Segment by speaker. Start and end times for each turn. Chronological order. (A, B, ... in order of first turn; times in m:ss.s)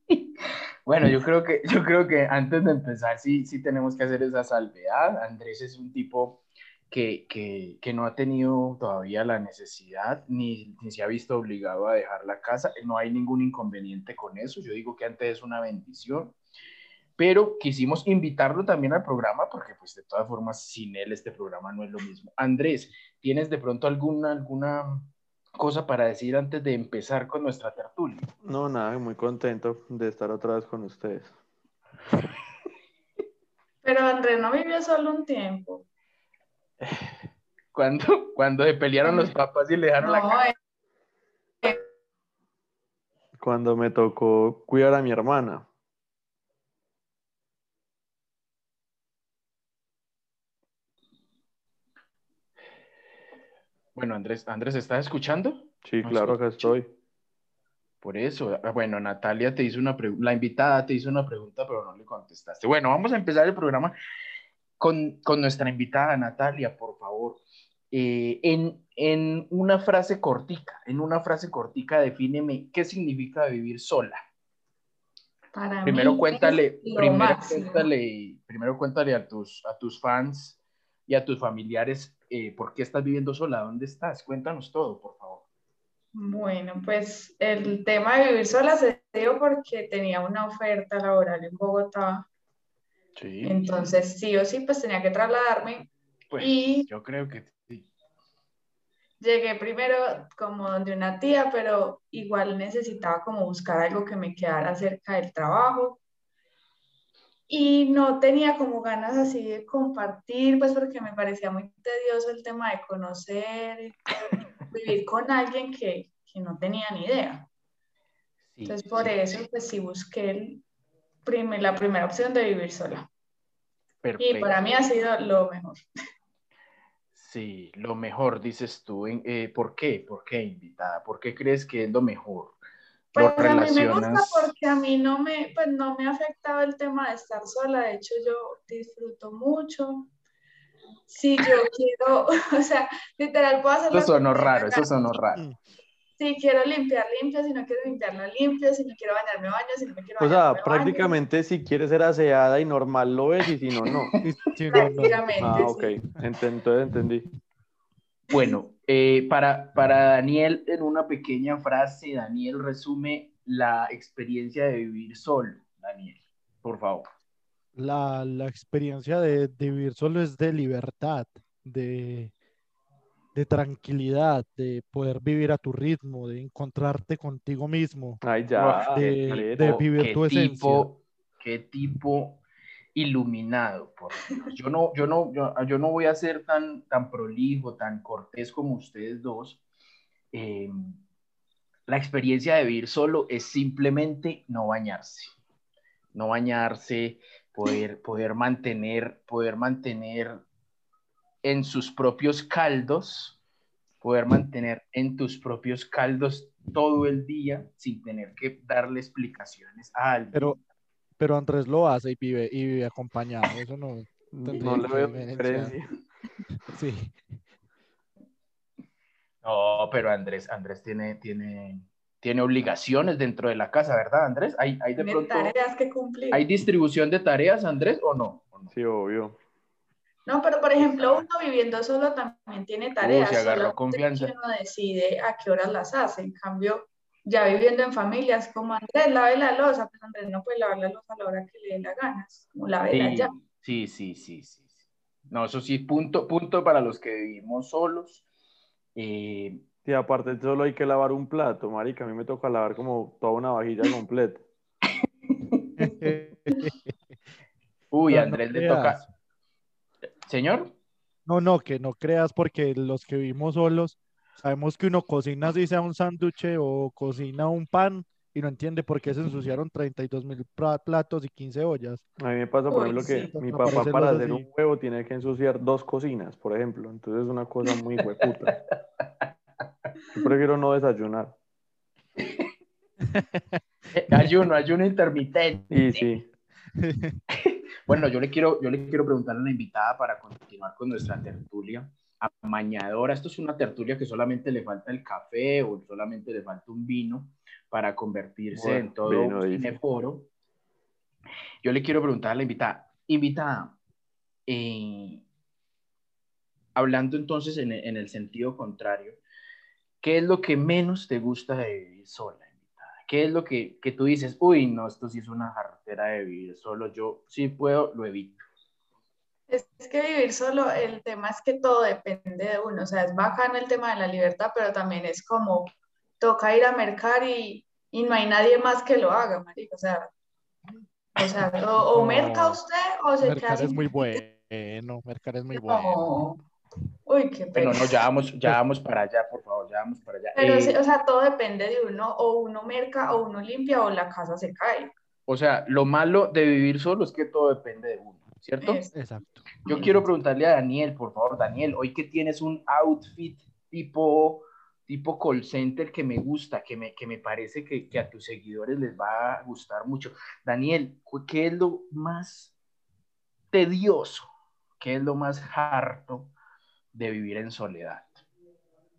0:00.9-0:16.4 A
0:17.2-0:28.3 A
0:28.4-0:31.3 B
0:33.8-0:35.8 C
0:36.8-0:37.1 A
0:37.7-0:40.4 A
0:39.1-0:39.3 C
0:40.0-0:40.5 C
0:43.4-0:45.7 B
0:54.0-0:56.7 A
0:55.8-0:56.9 B
0:58.0-1:04.0 A
1:04.8-1:14.2 A
1:15.5-1:17.9 C
1:15.8-1:25.4 A
1:26.1-1:32.3 C
1:33.2-1:33.6 A
1:33.4-1:36.9 C
1:36.3-1:37.9 A
1:39.2-1:46.0 C
1:47.5-1:57.5 C
1:58.5-1:59.2 A
1:58.7-2:00.6 C
2:01.2-2:03.1 C
2:04.0-2:04.6 A
2:04.2-2:05.8 C
2:07.2-2:12.6 A
2:13.1-2:20.1 C
2:13.2-2:14.5 A
2:21.1-2:24.9 C
2:23.9-2:25.4 A
2:26.2-2:31.2 C
2:30.2-2:34.1 B
2:34.2-2:35.7 D
2:34.7-2:36.0 C
2:35.4-2:37.3 B
2:38.3-2:47.1 A
2:47.8-2:52.3 D
2:53.4-2:58.2 D
2:58.2-2:59.8 B
2:58.6-3:02.4 A
2:59.0-3:00.9 D
3:03.0-3:09.6 A
3:10.3-3:11.0 A
3:11.9-3:15.3 A
3:16.1-3:20.4 A
3:21.4-3:23.4 A
3:24.0-3:30.6 A
3:31.2-3:35.8 D
3:34.3-3:35.9 B
3:36.7-3:37.2 D
3:39.4-3:45.6 A
3:45.0-3:46.4 C
3:46.3-3:48.7 A
3:48.7-3:49.4 B
3:50.3-4:03.3 C
3:50.8-3:51.3 A
3:53.0-3:54.3 A
4:02.9-4:04.7 A
4:05.3-4:08.2 A
4:09.0-4:09.6 A
4:09.8-4:14.4 B
4:15.5-4:15.8 A
4:15.8-4:17.0 D
4:17.9-4:19.1 A
4:18.1-4:19.1 D
4:20.3-4:20.7 A
4:21.3-4:32.0 D
4:32.2-4:38.6 B
4:32.7-4:33.4 C
4:33.3-4:34.5 D
4:38.2-4:38.5 A
4:40.1-4:41.4 B
4:43.1-4:43.6 D
4:43.9-4:46.1 A
4:45.7-4:46.3 B
4:46.8-4:47.2 D
4:47.4-5:00.3 A
4:58.5-4:59.8 B
5:01.6-5:03.8 A
5:04.5-5:05.2 A
5:06.8-5:09.2 A
5:10.0-5:18.4 A
5:19.5-5:30.1 C
5:31.2-5:34.2 C
5:31.9-5:32.6 D
5:33.2-5:36.2 D
5:35.5-5:36.4 C
5:37.1-5:37.9 C
5:37.6-5:40.8 A
5:40.4-5:44.9 C
5:45.3-5:48.9 A
5:48.6-5:48.9 C
5:48.9-5:49.9 D
5:49.7-6:02.6 A
6:03.5-6:06.3 A
6:06.9-6:08.2 A